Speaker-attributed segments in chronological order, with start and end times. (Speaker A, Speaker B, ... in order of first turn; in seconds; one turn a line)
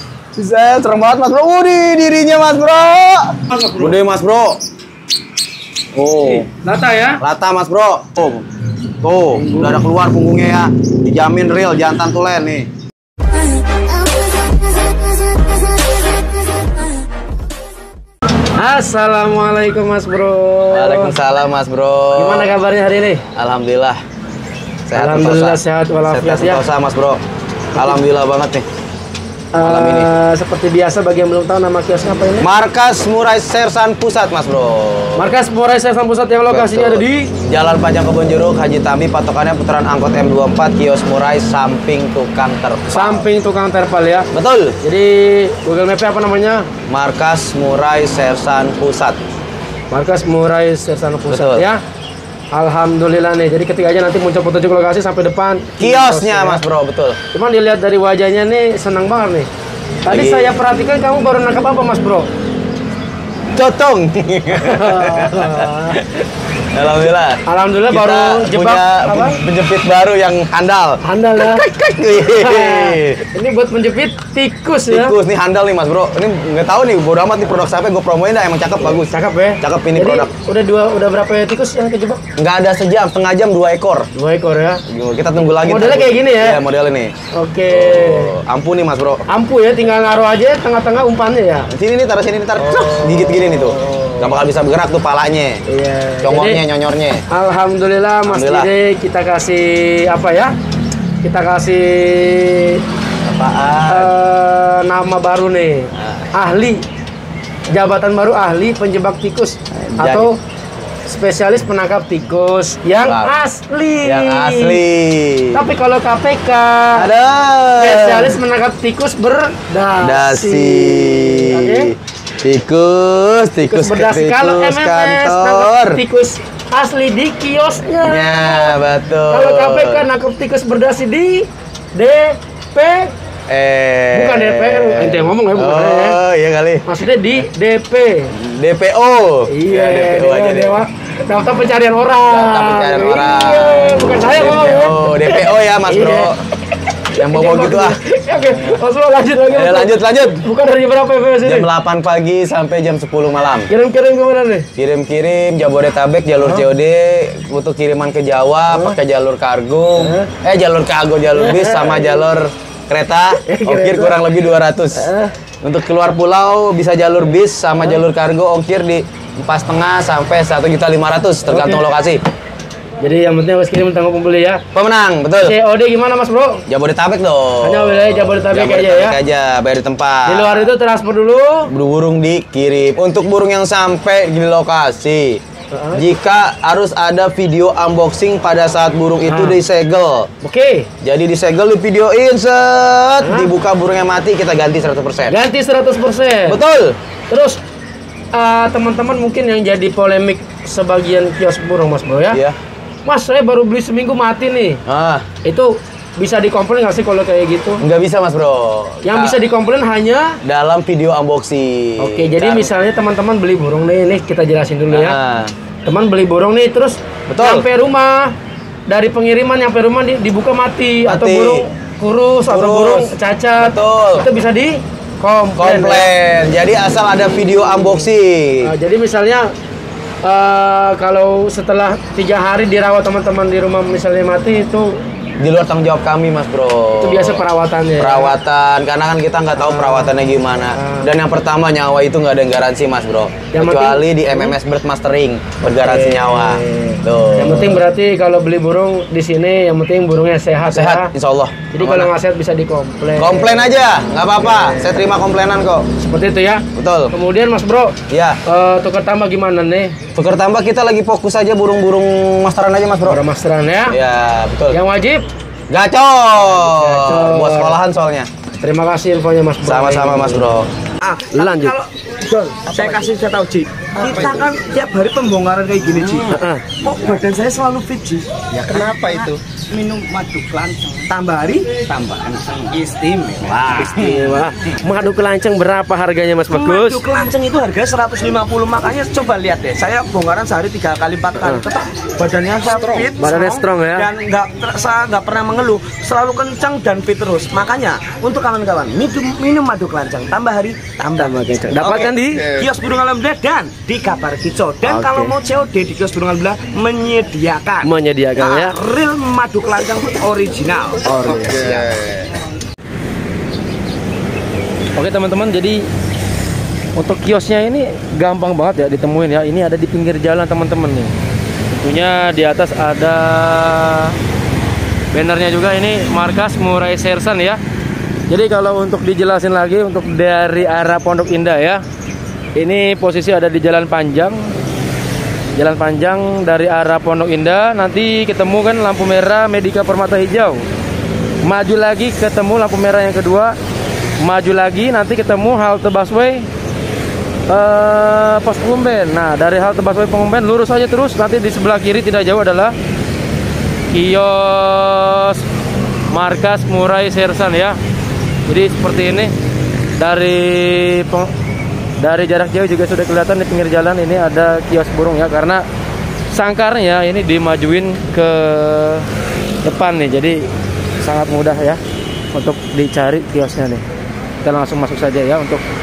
Speaker A: 0.3-4.6
Speaker B: 3.5-4.0
Speaker A: 5.9-6.5
Speaker B: 6.0-7.2
Speaker A: 7.2-8.5
Speaker A: 9.0-12.7
Speaker B: 9.3-9.8
Speaker B: 18.6-21.1
Speaker A: 20.7-22.5
Speaker B: 22.1-23.2
Speaker A: 23.3-24.0
Speaker A: 24.9-27.2
Speaker B: 24.9-26.6
Speaker A: 27.7-28.6
Speaker B: 29.5-32.5
Speaker A: 29.6-30.1
Speaker A: 32.4-35.3
Speaker B: 35.1-37.3
Speaker A: 36.5-43.3
Speaker B: 42.9-44.3
Speaker A: 44.3-44.8
Speaker B: 44.8-46.7
Speaker A: 46.9-49.2
Speaker B: 49.9-51.8
Speaker A: 51.3-51.6
Speaker B: 52.5-56.6
Speaker A: 55.8-57.2
Speaker B: 57.3-59.5
Speaker B: 60.0-62.3
Speaker A: 60.1-60.5
Speaker A: 63.5-66.0
Speaker B: 64.5-66.2
Speaker A: 66.7-73.2
Speaker B: 67.5-69.4
Speaker B: 71.0-71.6
Speaker B: 72.3-75.2
Speaker A: 74.9-80.3
Speaker B: 78.8-82.2
Speaker A: 82.4-84.1
Speaker B: 84.1-84.8
Speaker A: 84.9-87.1
Speaker B: 85.6-86.6
Speaker B: 87.3-88.3
Speaker A: 87.7-89.2
Speaker B: 89.3-91.7
Speaker A: 91.7-95.6
Speaker B: 92.6-94.3
Speaker B: 95.7-96.6
Speaker A: 96.2-97.2
Speaker B: 97.3-100.5
Speaker A: 98.2-98.7
Speaker B: 101.2-102.8
Speaker A: 103.2-104.1
Speaker B: 103.9-106.8
Speaker A: 106.0-106.3
Speaker B: 107.7-110.4
Speaker A: 109.7-110.3
Speaker B: 111.0-114.8
Speaker A: 113.0-113.3
Speaker A: 114.0-115.7
Speaker B: 115.5-117.1
Speaker A: 116.9-118.3
Speaker B: 117.8-121.9
Speaker A: 120.0-126.0
Speaker B: 123.7-128.8
Speaker A: 128.0-130.0
Speaker B: 129.3-133.1
Speaker A: 133.5-136.8
Speaker B: 134.1-136.2
Speaker B: 136.8-138.3
Speaker A: 138.3-140.8
Speaker B: 139.5-146.3
Speaker A: 142.3-146.4
Speaker A: 147.1-148.0
Speaker B: 147.2-151.7
Speaker A: 149.5-150.4
Speaker A: 151.4-153.7
Speaker B: 153.7-154.7
Speaker A: 154.8-165.1
Speaker B: 158.7-159.0
Speaker B: 160.0-160.3
Speaker B: 161.3-162.2
Speaker B: 163.4-164.2
Speaker B: 164.9-165.3
Speaker A: 165.6-172.2
Speaker B: 171.5-171.8
Speaker B: 173.0-174.6
Speaker A: 174.7-175.6
Speaker B: 175.4-176.7
Speaker A: 176.7-180.7
Speaker B: 177.6-179.2
Speaker B: 180.2-181.7
Speaker A: 181.7-185.4
Speaker B: 185.7-186.0
Speaker A: 185.9-190.3
Speaker B: 189.2-189.6
Speaker B: 190.4-190.9
Speaker A: 191.0-195.4
Speaker B: 193.2-193.5
Speaker B: 195.3-196.6
Speaker A: 196.5-197.0
Speaker B: 197.3-197.6
Speaker B: 198.3-202.4
Speaker A: 202.3-202.6
Speaker B: 203.0-204.8
Speaker A: 204.8-205.2
Speaker B: 205.4-207.8
Speaker A: 207.8-209.4
Speaker B: 209.0-210.4
Speaker A: 210.4-212.7
Speaker B: 212.0-215.2
Speaker A: 214.9-215.5
Speaker B: 215.8-218.3
Speaker A: 217.3-217.7
Speaker B: 218.9-226.1
Speaker A: 221.1-221.6
Speaker A: 222.5-224.3
Speaker A: 225.6-228.7
Speaker B: 228.6-229.5
Speaker B: 230.2-235.0
Speaker A: 235.4-237.4
Speaker B: 237.0-238.3
Speaker A: 238.0-247.8
Speaker B: 239.6-241.1
Speaker B: 243.5-244.5
Speaker B: 245.7-251.1
Speaker A: 250.7-252.1
Speaker B: 251.7-253.8
Speaker A: 253.2-255.9
Speaker B: 254.4-254.9
Speaker B: 256.0-260.0
Speaker A: 256.7-257.1
Speaker A: 258.1-258.4
Speaker A: 260.1-263.2
Speaker B: 263.0-264.0
Speaker A: 263.9-264.8
Speaker B: 264.7-265.3
Speaker A: 265.7-268.3
Speaker B: 266.6-267.8
Speaker B: 268.6-270.5
Speaker A: 269.6-270.7
Speaker C: 271.0-271.9
Speaker B: 271.3-271.8
Speaker B: 272.3-272.9
Speaker C: 272.6-283.9
Speaker A: 274.1-274.4
Speaker B: 276.3-276.6
Speaker A: 279.0-279.4
Speaker A: 283.8-284.3
Speaker B: 283.9-287.0
Speaker C: 286.5-311.9
Speaker B: 291.4-291.7
Speaker B: 293.0-294.1
Speaker B: 301.1-302.5
Speaker B: 304.8-305.3
Speaker B: 307.8-308.7
Speaker B: 311.1-311.8
Speaker A: 311.5-312.2
Speaker B: 314.9-315.9
Speaker B: 316.9-321.1
Speaker B: 321.7-324.1
Speaker B: 325.1-327.6
Speaker B: 328.3-331.8
Speaker B: 332.6-334.5
Speaker B: 335.6-340.6
Speaker B: 341.4-343.5
Speaker B: 344.2-346.5
Speaker B: 347.5-352.7
Speaker B: 353.9-355.4
Speaker B: 356.1-357.8
Speaker B: 358.5-359.3
Speaker B: 360.0-361.3
Speaker B: 362.0-365.6
Speaker B: 366.3-369.1
Speaker B: 369.6-370.4
Speaker B: 371.0-371.8
Speaker B: 372.3-373.8
Speaker B: 374.4-375.6